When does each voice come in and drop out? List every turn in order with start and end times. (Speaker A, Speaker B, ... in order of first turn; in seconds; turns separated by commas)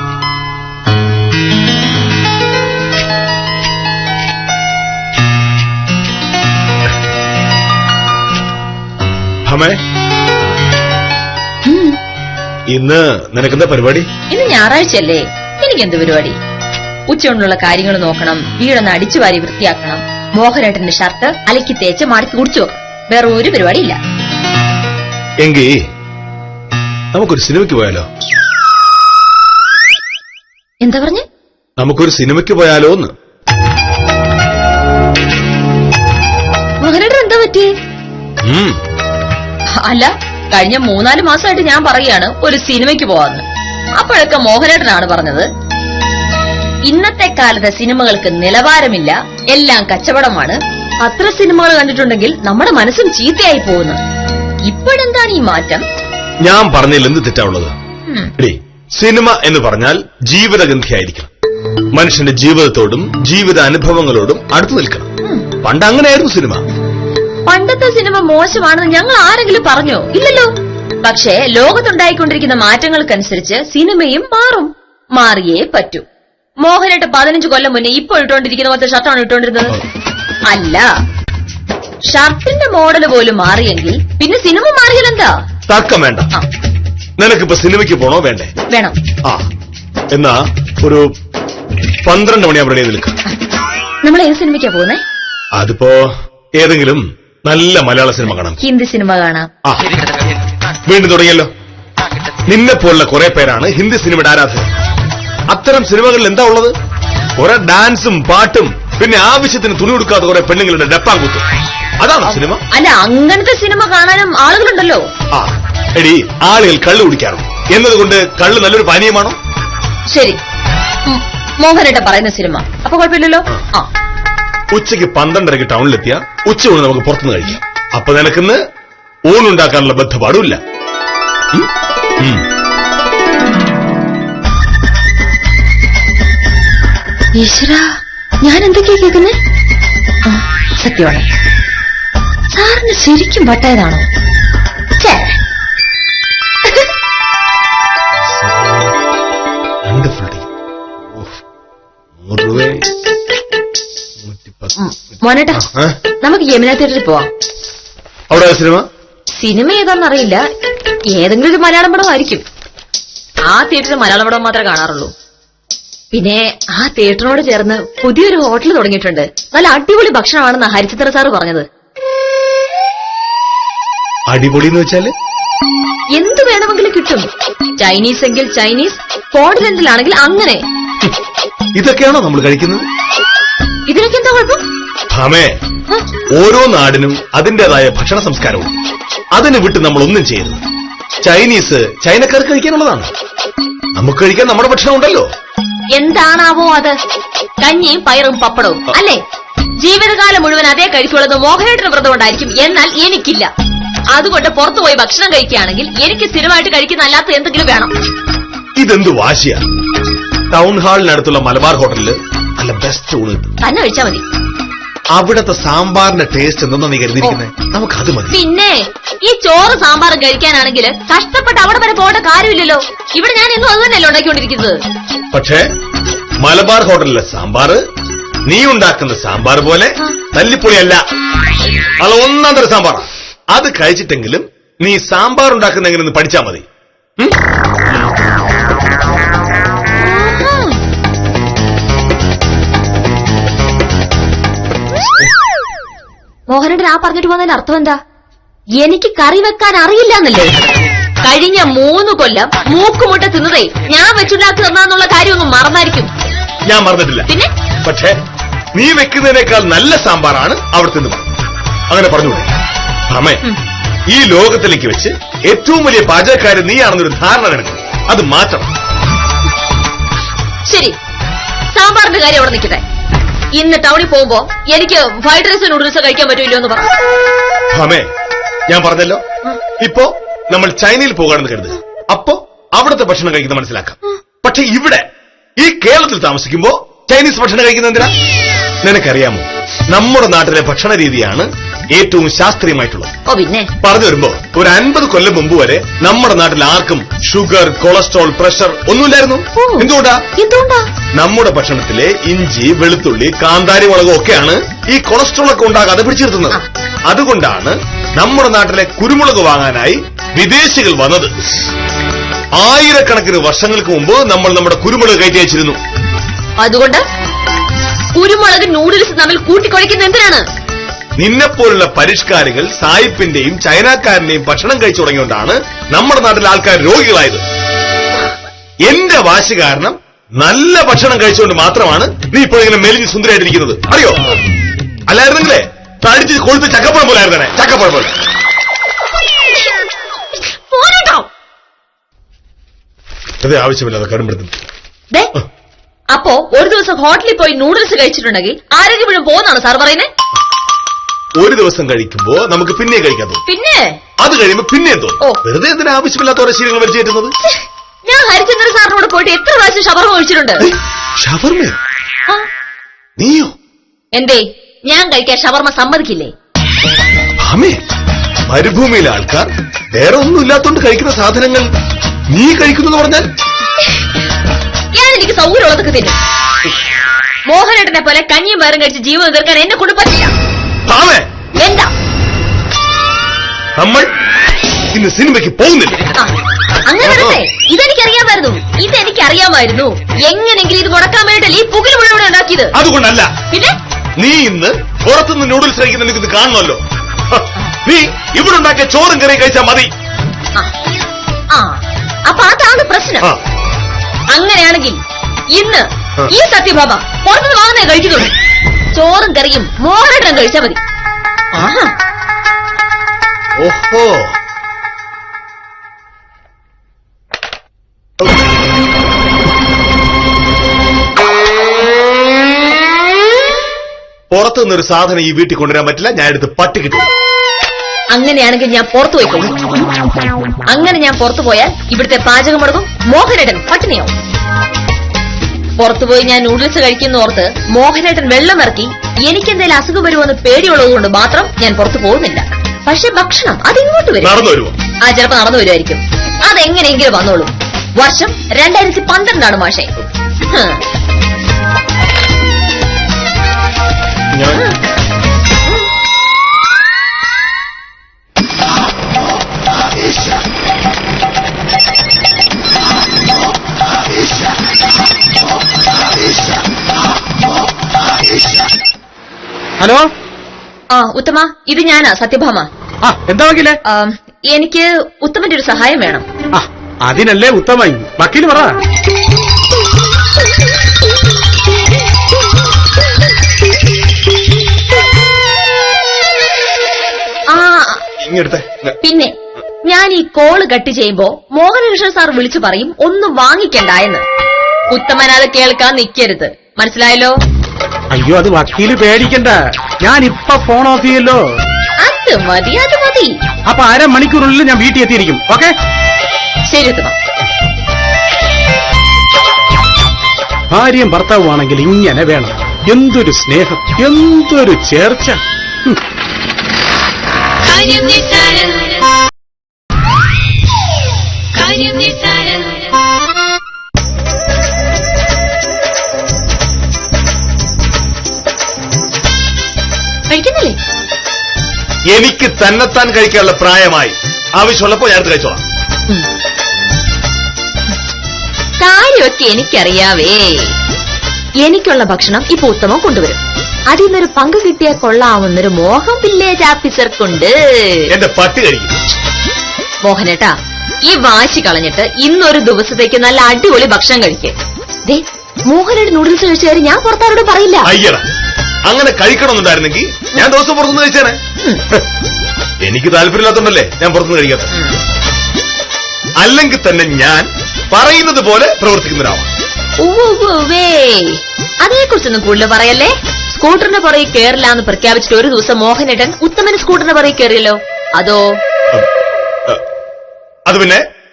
Speaker A: 9.4-9.8, Speaker B: 11.7-12.0, Speaker A: 12.7-14.1, Speaker B: 14.3-16.4, Speaker B: 17.1-24.0, Speaker A: 25.4-25.8, Speaker A: 27.1-28.1, Speaker B: 30.8-31.2, Speaker A: 31.8-33.1, Speaker B: 36.8-37.7, Speaker A: 38.4-38.8, Speaker B: 39.8-43.4, Speaker B: 44.0-45.5, Speaker B: 46.9-54.0, Speaker B: 54.7-55.8, Speaker A: 56.4-57.7, Speaker A: 58.4-61.3, Speaker A: 61.9-65.1, Speaker A: 65.6-66.6, Speaker B: 67.5-70.5, Speaker B: 71.0-76.0, Speaker B: 76.6-79.8, Speaker B: 80.5-80.8, Speaker B: 82.1-85.3, Speaker A: 85.7-86.3, Speaker A: 87.2-88.5, Speaker B: 88.7-89.0, Speaker A: 90.1-91.0, Speaker A: 92.0-93.2, Speaker B: 94.0-95.0, Speaker A: 95.6-98.6, Speaker B: 98.6-99.5, Speaker A: 100.8-101.5, Speaker A: 102.5-104.7, Speaker A: 105.5-106.7, Speaker A: 107.4-111.4, Speaker A: 112.0-112.6, Speaker B: 112.3-115.0, Speaker A: 115.3-119.4, Speaker B: 120.1-120.4, Speaker B: 121.1-123.9, Speaker A: 124.7-128.6, Speaker A: 129.3-130.6, Speaker A: 132.2-132.4, Speaker B: 137.4-137.9, Speaker B: 138.4-139.4, Speaker B: 140.3-141.2, Speaker B: 142.5-144.1, Speaker B: 145.0-145.3, Speaker A: 149.9-150.5, Speaker A: 152.2-152.8, Speaker A: 154.2-154.7, Speaker B: 154.8-155.6, Speaker A: 155.5-156.0, Speaker B: 156.2-157.3, Speaker A: 158.3-158.8, Speaker B: 159.3-160.4, Speaker B: 161.1-162.4, Speaker B: 163.5-165.1, Speaker B: 166.1-171.6, Speaker A: 174.3-175.1, Speaker B: 176.1-177.3, Speaker B: 177.8-180.6, Speaker A: 181.8-182.8, Speaker B: 183.9-184.6, Speaker A: 185.1-185.5, Speaker A: 186.3-188.7, Speaker A: 189.3-190.6, Speaker A: 191.2-193.1, Speaker A: 194.0-195.2, Speaker B: 195.9-196.9, Speaker B: 197.6-199.2, Speaker B: 199.8-203.5, Speaker B: 204.1-207.9, Speaker A: 208.8-209.6, Speaker A: 210.5-213.5, Speaker B: 213.6-214.2, Speaker A: 215.2-218.4, Speaker B: 218.3-224.8, Speaker A: 225.3-225.7, Speaker A: 226.4-227.8, Speaker A: 228.4-231.0, Speaker A: 232.0-236.6, Speaker B: 239.9-240.8, Speaker B: 246.5-247.9, Speaker B: 248.8-250.6, Speaker B: 251.2-256.1, Speaker A: 256.7-257.3, Speaker A: 257.8-258.2, Speaker A: 258.7-261.2, Speaker A: 261.9-262.5, Speaker A: 263.1-263.4, Speaker A: 264.1-268.7, Speaker B: 270.6-270.9, Speaker B: 271.7-272.8, Speaker B: 273.5-276.9, Speaker A: 277.7-278.1, Speaker A: 278.7-279.2, Speaker A: 279.8-285.0, Speaker A: 285.6-288.1, Speaker A: 288.8-293.1, Speaker B: 293.3-293.7, Speaker A: 293.8-300.2, Speaker B: 299.6-300.9, Speaker A: 301.1-311.3, Speaker A: 312.6-315.8, Speaker B: 316.6-317.0, Speaker B: 318.1-320.4, Speaker A: 321.2-327.4, Speaker A: 328.8-334.4, Speaker A: 335.1-338.1, Speaker B: 340.4-341.3, Speaker A: 343.4-344.6, Speaker B: 346.1-350.1, Speaker A: 351.4-353.4, Speaker B: 353.5-353.9, Speaker A: 354.2-357.3, Speaker B: 357.5-360.7, Speaker A: 360.6-361.8, Speaker A: 363.2-363.5, Speaker B: 364.1-366.3, Speaker A: 367.4-367.8, Speaker A: 368.5-371.7, Speaker A: 372.3-373.3, Speaker B: 374.9-376.2, Speaker B: 377.5-380.3, Speaker A: 380.9-381.3, Speaker B: 381.5-381.9, Speaker A: 383.8-384.1, Speaker A: 384.9-386.0, Speaker B: 386.8-392.7, Speaker A: 387.0-387.4, Speaker A: 392.7-393.3, Speaker B: 393.5-393.8, Speaker A: 394.2-399.9, Speaker B: 401.5-403.3, Speaker B: 404.3-405.0, Speaker B: 405.5-408.3, Speaker B: 408.9-410.8, Speaker B: 411.5-411.9, Speaker A: 413.6-414.3, Speaker A: 424.3-427.1, Speaker B: 428.1-429.8, Speaker B: 430.7-434.1, Speaker B: 435.8-444.4, Speaker A: 444.2-444.7, Speaker B: 445.0-449.9, Speaker B: 450.5-450.8, Speaker A: 454.3-454.6, Speaker C: 469.8-470.1, Speaker B: 470.9-472.7, Speaker C: 473.0-473.8, Speaker B: 473.9-476.2, Speaker C: 476.5-478.8, Speaker B: 487.5-488.0, Speaker A: 488.2-488.9, Speaker B: 489.0-489.3, Speaker B: 489.8-494.2, Speaker B: 494.9-497.3, Speaker C: 498.1-501.4, Speaker B: 502.0-503.3, Speaker C: 503.6-505.7, Speaker B: 506.7-507.1, Speaker C: 510.7-516.0, Speaker D: 517.6-519.0, Speaker B: 521.5-522.7, Speaker D: 521.8-522.4, Speaker B: 530.3-530.8, Speaker A: 532.1-535.6, Speaker B: 538.8-540.7, Speaker B: 541.6-548.0, Speaker A: 548.1-549.0, Speaker B: 550.0-550.5, Speaker B: 551.0-554.5, Speaker B: 555.0-557.9, Speaker A: 557.8-558.2, Speaker A: 558.9-561.4, Speaker A: 562.8-564.7, Speaker B: 564.7-565.0, Speaker A: 566.4-569.5, Speaker B: 570.0-578.4, Speaker A: 580.7-581.0